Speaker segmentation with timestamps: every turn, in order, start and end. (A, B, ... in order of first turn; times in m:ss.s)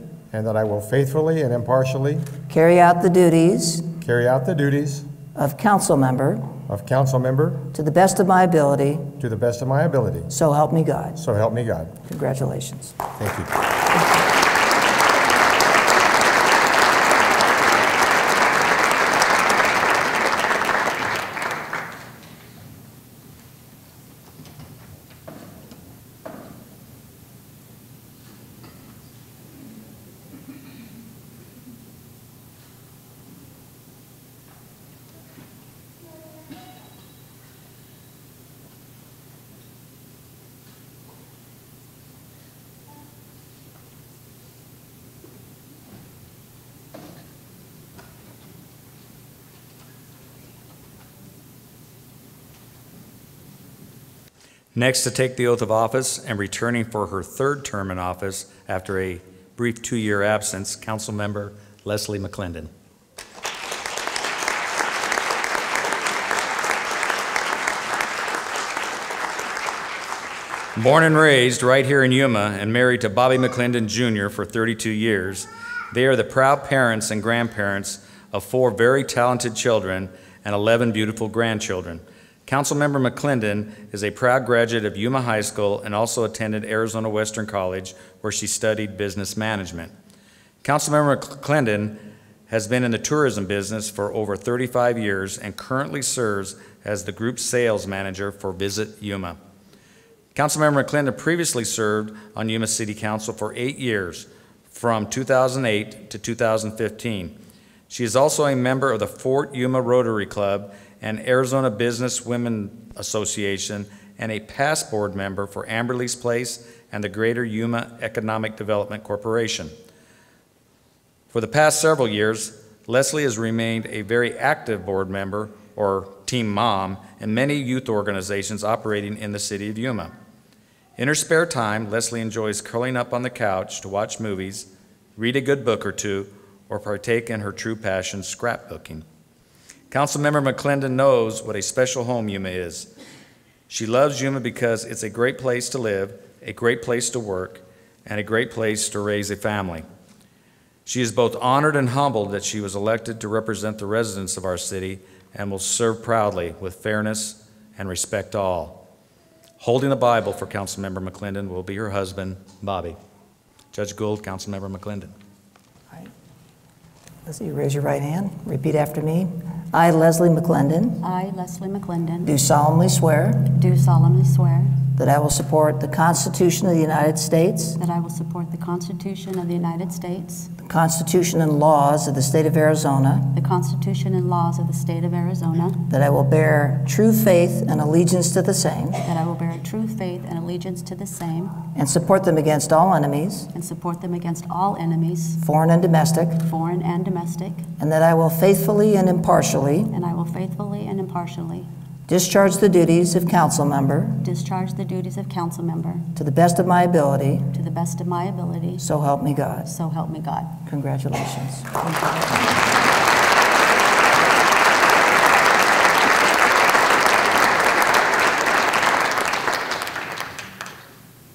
0:00.3-0:02.4 A
0:02.5-0:03.9 B
0:04.0-0:05.1 A
0:05.3-0:06.5 B
0:06.7-0:07.7 A
0:07.7-0:09.2 B
0:09.2-0:10.3 A
0:10.3-0:11.2 B
0:11.2-0:12.0 A
0:12.0-0:13.0 B
0:13.2-0:13.6 A
0:54.7-1:02.7 C
1:10.8-1:29.9 C
1:30.6-1:39.4 C
1:40.3-1:47.4 C
1:47.9-1:59.7 C
2:01.3-2:10.1 C
2:11.0-2:19.0 C
2:19.9-2:22.9 C
2:23.7-2:29.8 C
2:30.8-2:38.9 C
2:39.6-2:43.0 C
2:43.7-2:45.1 C
2:47.2-2:51.0 B
2:51.0-2:52.3 D
2:52.2-2:53.5 B
2:53.5-2:54.8 D
2:54.9-2:57.8 B
2:57.8-3:00.5 D
3:00.6-3:03.3 B
3:03.3-3:05.8 D
3:05.9-3:09.0 B
3:09.0-3:11.6 D
3:11.7-3:13.5 B
3:13.5-3:15.4 D
3:15.4-3:16.4 B
3:16.4-3:17.7 D
3:17.8-3:19.9 B
3:19.9-3:21.7 D
3:22.1-3:24.2 B
3:24.2-3:26.1 D
3:26.1-3:27.5 B
3:27.5-3:28.8 D
3:28.8-3:29.7 B
3:29.6-3:30.6 D
3:30.6-3:32.4 B